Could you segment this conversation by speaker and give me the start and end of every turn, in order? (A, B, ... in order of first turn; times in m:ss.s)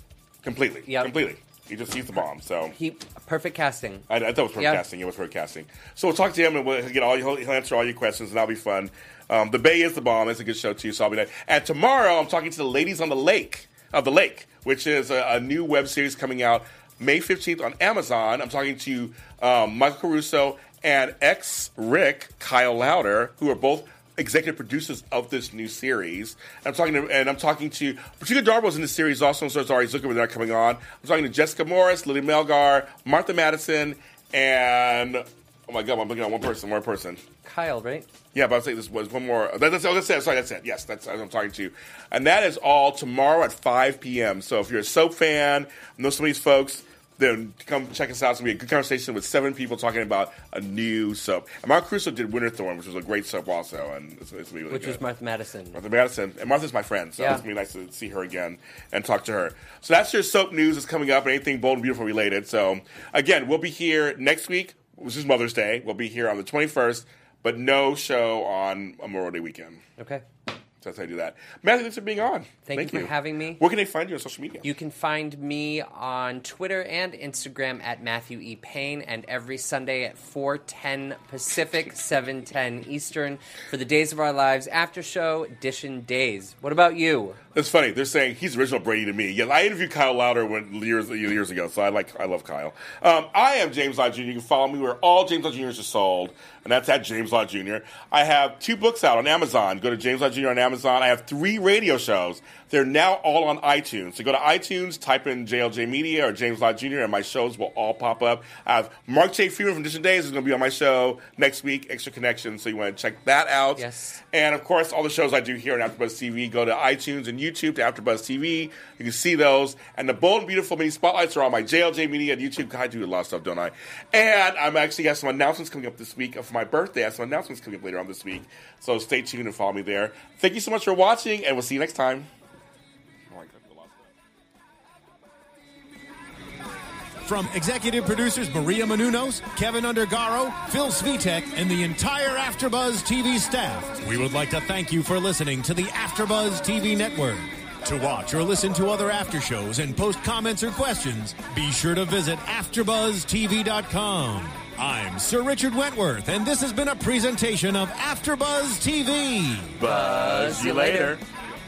0:00.4-0:02.8 A
0:00.9-0:01.1 B
0:02.7-0:04.0 B
0:04.1-0:37.2 A
0:04.6-0:04.8 B
0:37.4-0:38.1 B
0:38.3-0:55.0 A
0:54.7-0:55.8 B
0:55.7-1:09.8 A
0:57.2-0:57.4 B
1:10.0-1:10.2 B
1:10.8-1:14.7 A
1:12.6-1:13.6 B
1:14.6-1:27.4 B
1:27.5-2:12.3 A
1:53.8-1:54.2 B
2:13.3-2:14.1 A
2:17.2-2:39.7 C
2:39.8-2:41.2 A
2:39.8-2:41.2 B